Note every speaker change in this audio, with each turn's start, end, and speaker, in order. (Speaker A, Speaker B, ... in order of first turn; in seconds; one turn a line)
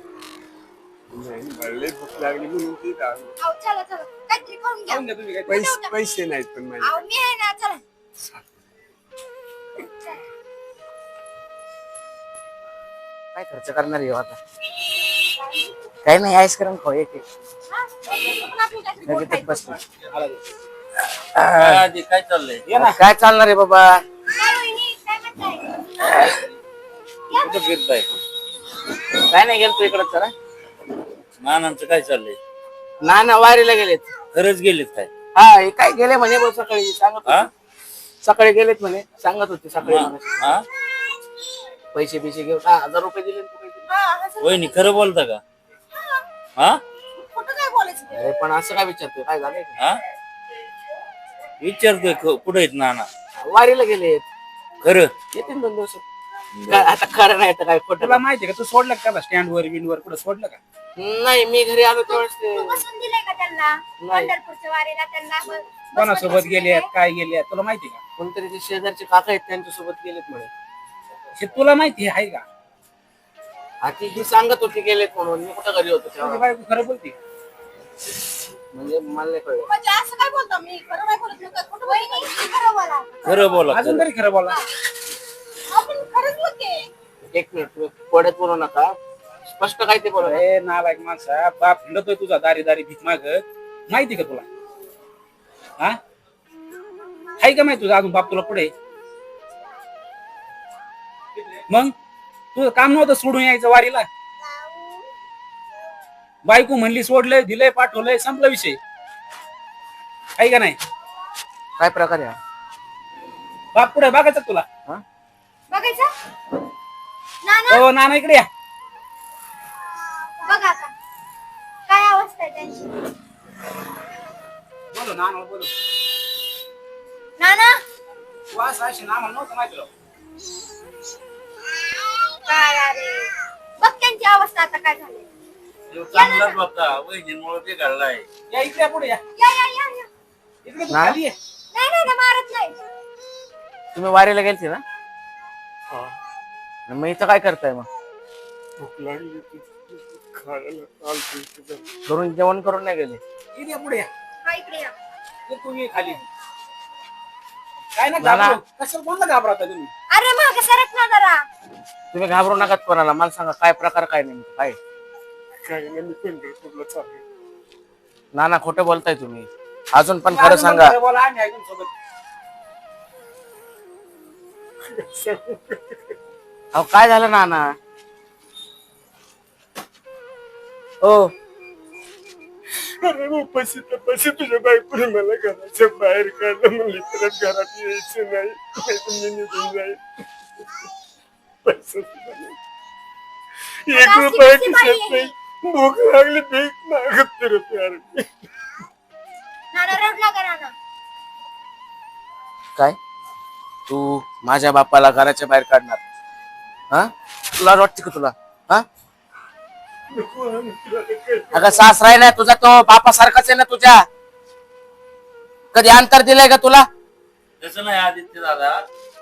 Speaker A: 1.1-3.3
Speaker B: 3.4-6.0
Speaker C: 4.9-5.6
Speaker A: 5.5-7.0
Speaker B: 6.8-7.8
Speaker A: 8.2-8.5
Speaker D: 13.3-14.4
Speaker D: 16.0-17.2
Speaker E: 17.7-19.8
Speaker D: 19.1-19.8
Speaker C: 20.1-20.4
Speaker D: 21.2-21.8
Speaker F: 21.6-22.6
Speaker C: 22.7-23.0
Speaker D: 22.8-24.0
Speaker B: 24.3-26.3
Speaker B: 27.3-27.7
Speaker F: 27.3-28.1
Speaker D: 29.1-30.3
Speaker F: 31.4-32.4
Speaker D: 33.0-34.1
Speaker F: 34.3-35.1
Speaker D: 35.3-37.5
Speaker D: 38.2-40.5
Speaker F: 39.8-40.6
Speaker D: 41.9-43.8
Speaker E: 43.9-44.8
Speaker F: 44.4-45.4
Speaker E: 47.2-48.2
Speaker D: 48.1-49.7
Speaker F: 51.6-53.1
Speaker D: 53.4-54.2
Speaker F: 54.8-55.1
Speaker D: 55.3-56.0
Speaker F: 56.5-56.9
Speaker D: 56.7-58.2
Speaker C: 58.0-60.6
Speaker D: 61.0-62.8
Speaker B: 62.1-66.9
Speaker D: 64.0-64.3
Speaker C: 65.9-68.0
Speaker D: 68.2-70.5
Speaker C: 71.4-72.4
Speaker D: 73.8-76.4
Speaker C: 76.2-77.1
Speaker D: 78.7-79.7
Speaker E: 79.6-82.4
Speaker B: 81.8-83.7
Speaker F: 83.2-84.1
Speaker C: 83.7-84.6
Speaker E: 85.7-86.9
Speaker D: 87.3-90.4
Speaker C: 90.2-94.4
Speaker C: 97.4-98.7
Speaker C: 101.7-101.9
Speaker C: 102.5-104.1
Speaker B: 104.4-105.0
Speaker C: 106.4-108.8
Speaker C: 110.4-110.8
Speaker D: 111.8-112.4
Speaker C: 113.7-114.6
Speaker B: 115.7-116.1
Speaker B: 117.4-117.8
Speaker C: 117.7-118.5
Speaker B: 120.4-120.9
Speaker B: 121.9-122.9
Speaker C: 124.9-125.7
Speaker B: 127.4-127.8
Speaker C: 128.5-129.9
Speaker B: 132.4-135.2
Speaker F: 135.9-138.2
Speaker B: 136.1-136.6
Speaker C: 138.5-139.2
Speaker B: 139.4-140.1
Speaker C: 140.6-141.3
Speaker D: 140.9-141.2
Speaker B: 141.7-142.8
Speaker D: 143.9-144.8
Speaker A: 145.9-146.1
Speaker D: 146.9-147.9
Speaker A: 148.8-151.8
Speaker D: 152.1-153.2
Speaker C: 153.5-154.1
Speaker B: 154.4-154.9
Speaker C: 155.5-156.2
Speaker C: 157.9-159.9
Speaker D: 158.2-158.6
Speaker B: 160.1-161.4
Speaker D: 162.1-164.8
Speaker A: 165.6-167.2
Speaker D: 168.3-171.0
Speaker C: 170.2-171.9
Speaker A: 174.9-176.2
Speaker D: 176.7-177.7
Speaker D: 181.0-181.3
Speaker A: 182.7-190.0
Speaker A: 191.6-192.6
Speaker A: 193.8-198.4
Speaker B: 193.9-195.3
Speaker B: 199.7-200.7
Speaker D: 203.9-206.0
Speaker D: 206.9-208.8
Speaker A: 210.1-212.0
Speaker D: 211.5-214.0
Speaker D: 215.7-216.9
Speaker F: 217.6-218.8